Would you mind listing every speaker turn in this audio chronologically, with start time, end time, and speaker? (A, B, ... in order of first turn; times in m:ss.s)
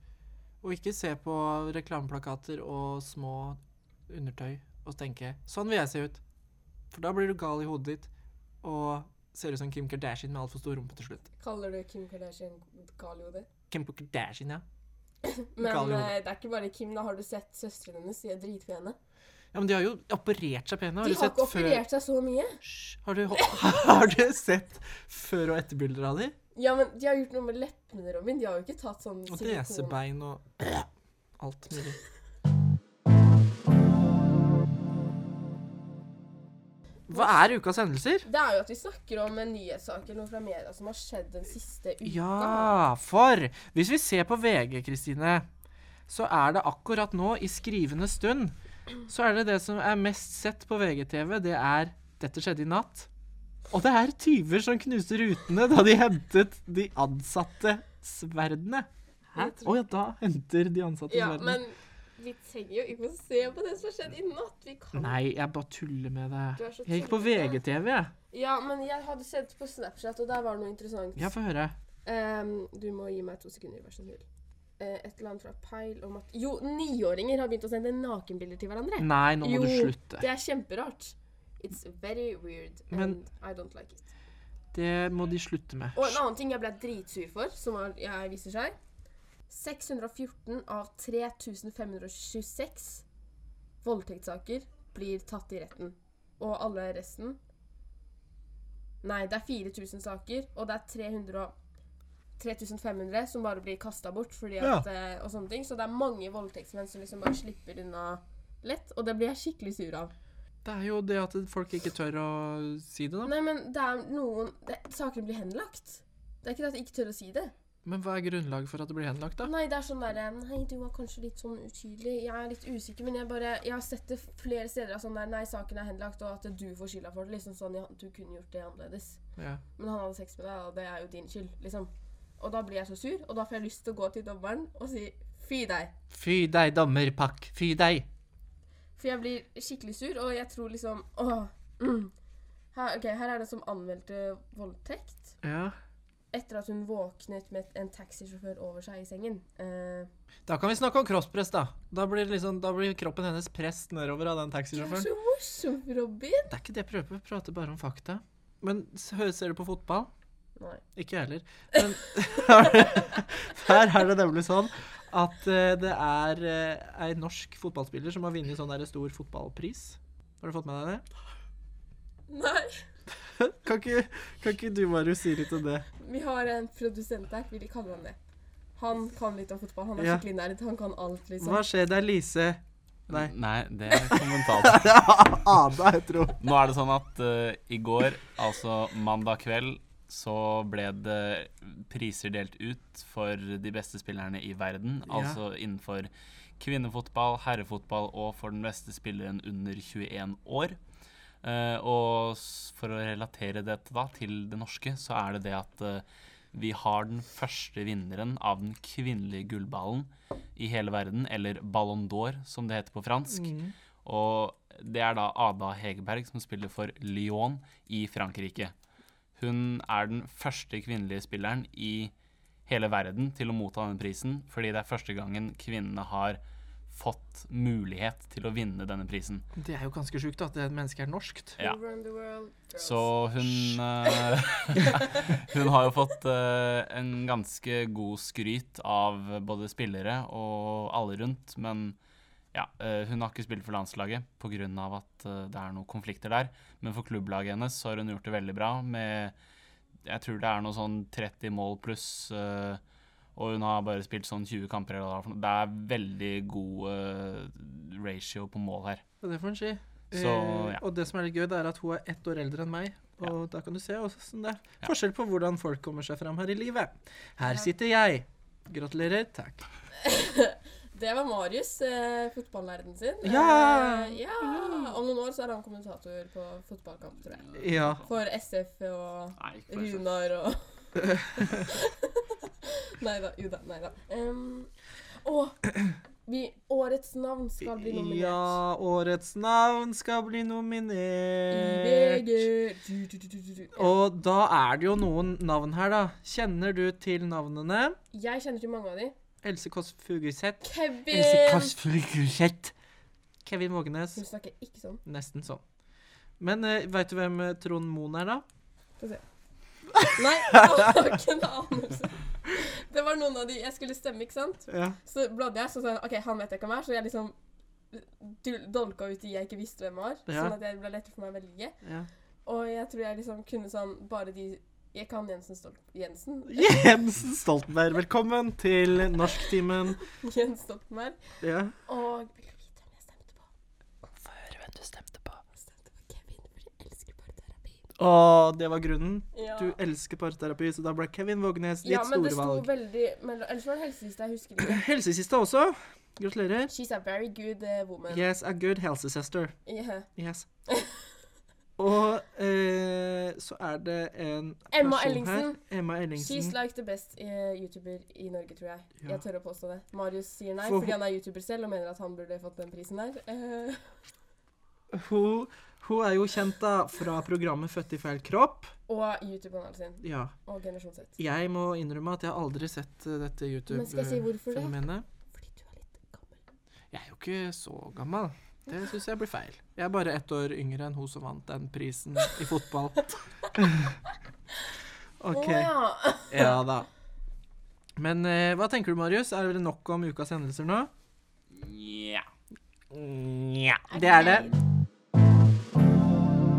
0:00.6-0:06.2 A
0:06.9-0:08.1 A
0:08.6-0:11.3 A
0:11.4-0:13.5 B
0:13.7-0:14.6 A
0:15.2-0:19.0 B
0:15.6-0:16.1 A
0:19.5-0:21.8 A
0:21.0-0:22.6 B
0:22.6-0:26.3 A
0:23.3-0:24.0 B
0:26.5-0:30.0 B
0:29.3-0:30.9 A
0:31.4-0:32.0 A
0:37.1-0:38.3 A
0:37.1-0:37.4 B
0:38.2-0:42.8 B
0:42.0-0:45.5 A
0:46.1-0:53.1 A
0:53.7-1:01.6 A
0:59.4-0:59.8 B
1:01.1-1:05.2 B
1:04.9-1:08.1 A
1:06.6-1:07.6 B
1:08.3-1:11.3 B
1:11.2-1:11.8 A
1:12.0-1:14.2 B
1:14.8-1:24.1 B
1:19.0-1:20.2 A
1:22.9-1:23.2 A
1:24.7-1:26.2 A
1:25.9-1:28.8 B
1:29.5-1:33.0 B
1:33.8-1:37.4 B
1:39.0-1:41.5 B
1:42.4-1:50.1 B
1:44.6-1:44.8 A
1:50.6-1:53.3 A
1:53.2-1:57.5 B
1:57.8-1:59.5 A
1:59.4-2:09.2 B
2:09.4-2:09.6 A
2:09.8-2:15.9 B
2:16.1-2:18.1 A
2:19.0-2:22.1 B
2:22.7-2:25.4 B
2:25.4-2:25.7 A
2:26.3-2:30.1 B
2:30.5-2:35.1 A
2:34.7-2:36.5 B
2:36.5-2:40.1 A
2:40.6-2:40.8 B
2:40.9-2:51.0 A
2:52.3-2:52.8 B
2:53.4-2:55.9 A
2:56.0-2:58.2 B
2:58.8-3:01.6 B
3:00.0-3:00.2 A
3:01.4-3:03.3 A
3:03.1-3:05.0 C
3:03.9-3:06.4 A
3:06.4-3:20.8 C
3:15.1-3:15.4 A
3:21.4-3:38.7 C
3:33.3-3:33.7 A
3:39.4-3:42.1 C
3:42.7-3:49.4 C
3:49.6-3:51.6 A
3:51.6-3:55.4 B
3:52.8-4:02.0 C
4:02.5-4:09.4 C
4:10.0-4:12.8 C
4:13.4-4:19.0 C
4:19.2-4:29.7 A
4:20.1-4:20.8 C
4:30.0-4:40.6 B
4:33.2-4:35.0 A
4:37.5-4:38.0 A
4:39.4-4:40.0 C
4:41.0-4:41.6 A
4:41.4-4:44.7 B
4:45.2-4:45.6 B
4:46.2-4:48.6 B
4:47.6-4:52.5 A
4:51.5-4:54.0 B
4:53.7-4:58.0 A
4:58.1-4:59.1 B
4:59.4-5:02.7 A
5:00.6-5:01.8 B
5:03.4-5:04.2 A
5:04.1-5:05.0 B
5:05.0-5:05.6 A
5:06.4-5:08.4 A
5:10.2-5:17.3 B
5:14.7-5:15.0 A
5:17.9-5:21.8 B
5:20.3-5:20.5 A
5:21.8-5:22.1 A
5:22.4-5:26.9 B
5:26.5-5:30.0 A
5:29.3-5:31.2 B
5:31.4-5:31.7 A
5:31.8-5:33.5 B
5:34.2-5:35.4 A
5:35.5-5:37.8 B
5:38.0-5:42.7 A
5:39.3-5:39.8 B
5:41.8-5:44.8 B
5:44.6-5:46.7 A
5:46.7-5:48.2 B
5:48.1-5:49.5 A
5:49.6-5:50.1 B
5:50.2-5:50.4 A
5:50.7-5:51.2 B
5:51.8-5:56.5 A
5:54.7-5:55.6 B
5:56.2-6:04.0 B
6:00.6-6:00.9 A
6:04.9-6:08.7 A
6:08.9-6:11.2 B
6:10.0-6:10.3 A
6:11.2-6:15.0 A
6:13.7-6:16.4 B
6:16.9-6:24.0 A
6:25.2-6:25.7 A
6:25.3-6:26.6 B
6:26.3-6:26.9 A
6:28.0-6:30.9 A
6:31.5-6:32.3 C
6:32.9-6:34.5 A
6:33.9-6:34.6 B